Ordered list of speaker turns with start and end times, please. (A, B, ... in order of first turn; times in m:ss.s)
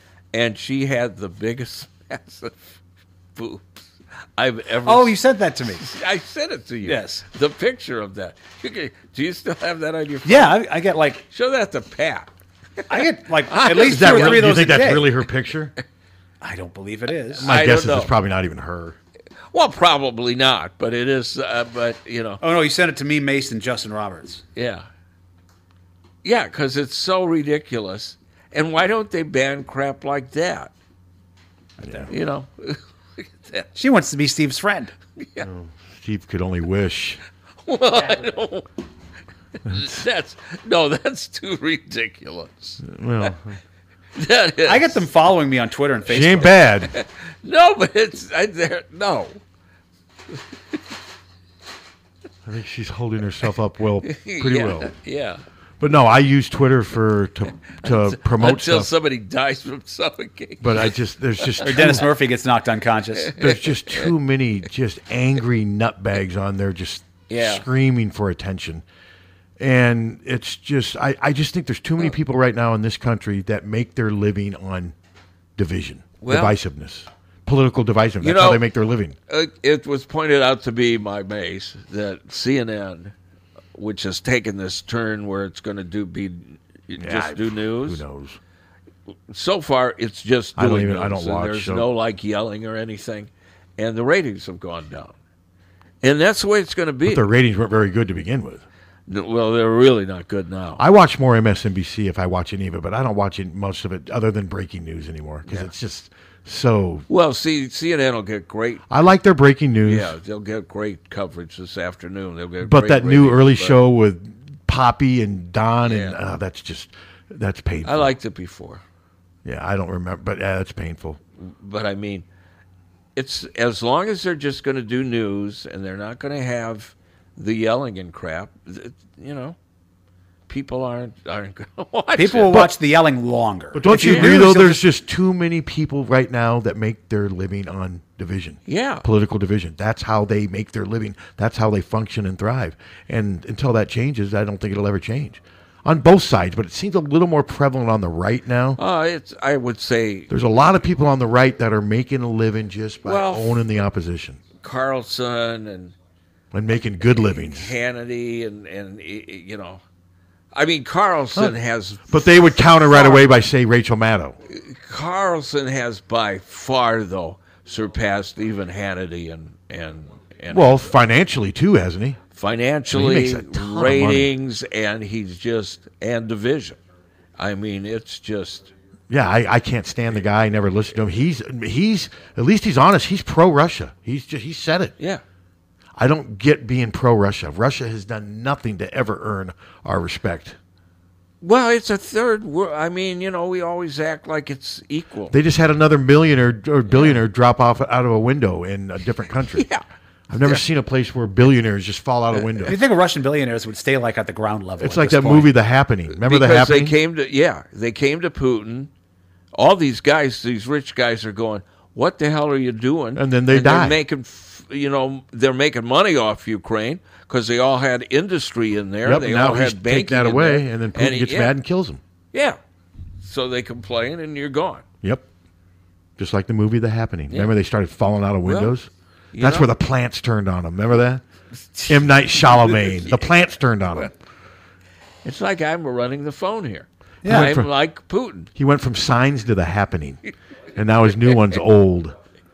0:00.3-0:02.8 A
0:03.3-0:05.2 A
0:04.8-0:05.8 B
0:05.7-0:10.6 A
0:06.9-0:07.2 B
0:10.2-0:11.2 B
0:11.3-0:12.3 A
0:12.9-0:15.0 B
0:12.9-0:14.6 A
0:13.7-0:15.7 C
0:16.4-0:17.5 B
0:17.3-0:18.1 A
0:17.4-0:19.0 C
0:19.5-0:22.4 A
0:22.4-0:24.4 B
0:24.6-0:24.8 A
0:26.2-0:30.7 A
0:31.8-0:32.1 C
0:31.8-0:32.1 B
0:32.1-0:33.8 A
0:33.8-0:34.9 B
0:35.2-0:35.5 A
0:35.4-0:37.2 C
0:37.6-0:38.6 A
0:39.6-0:39.9 C
0:39.7-0:42.8 A
0:42.8-0:43.6 C
0:44.2-0:45.0 A
0:44.6-0:46.5 B
0:46.1-0:46.9 C
0:46.9-0:49.4 A
0:52.4-0:54.9 C
0:54.0-0:55.4 A
0:55.8-0:58.9 C
0:57.7-1:02.0 A
1:00.6-1:02.1 C
1:01.6-1:03.3 B
1:03.3-1:04.1 A
1:03.4-1:08.8 C
1:07.3-1:07.6 A
1:09.6-1:14.9 C
1:15.6-1:19.2 C
1:16.2-1:16.5 A
1:18.2-1:18.6 A
1:19.3-1:23.1 A
1:23.8-1:28.0 A
1:27.0-1:28.4 C
1:29.3-1:35.2 A
1:30.6-1:31.8 C
1:36.0-1:37.2 A
1:37.0-1:38.6 C
1:39.1-1:40.8 A
1:40.8-1:47.0 C
1:45.4-1:45.7 A
1:47.1-1:48.8 A
1:48.9-1:50.1 C
1:49.8-1:53.8 A
1:52.6-1:58.1 C
1:55.8-1:56.2 A
1:57.8-1:58.8 A
1:59.4-2:01.2 C
2:01.4-2:02.2 A
2:03.1-2:09.6 A
2:10.5-2:12.7 A
2:12.2-2:14.8 B
2:13.7-2:28.8 C
2:13.9-2:14.4 A
2:18.7-2:19.0 A
2:28.8-2:30.3 A
2:30.3-2:34.4 C
2:33.0-2:33.6 A
2:34.6-2:35.9 A
2:36.5-2:37.7 C
2:37.1-2:39.8 A
2:40.5-2:42.2 A
2:42.1-2:44.4 C
2:42.8-2:43.3 A
2:44.5-2:50.8 A
2:50.5-2:52.2 C
2:52.3-2:56.8 A
2:52.9-2:54.3 C
2:57.4-2:58.7 A
2:59.1-3:04.9 C
3:06.0-3:10.6 C
3:11.4-3:15.3 A
3:15.3-3:19.6 C
3:16.9-3:17.2 A
3:19.5-3:19.8 A
3:20.3-3:22.8 C
3:22.3-3:22.7 A
3:22.6-3:25.5 B
3:24.8-3:26.9 C
3:26.1-3:28.9 A
3:29.5-3:41.5 A
3:33.1-3:34.0 C
3:39.0-3:42.0 C
3:42.3-3:42.6 A
3:43.2-3:44.8 A
3:46.2-3:51.2 C
3:48.4-3:48.7 A
3:49.3-3:49.7 A
3:51.7-3:53.3 A
3:51.9-3:54.1 C
3:55.2-3:58.5 A
3:57.2-3:57.7 C
3:57.2-3:57.5 B
3:58.5-4:00.2 C
4:00.7-4:02.1 C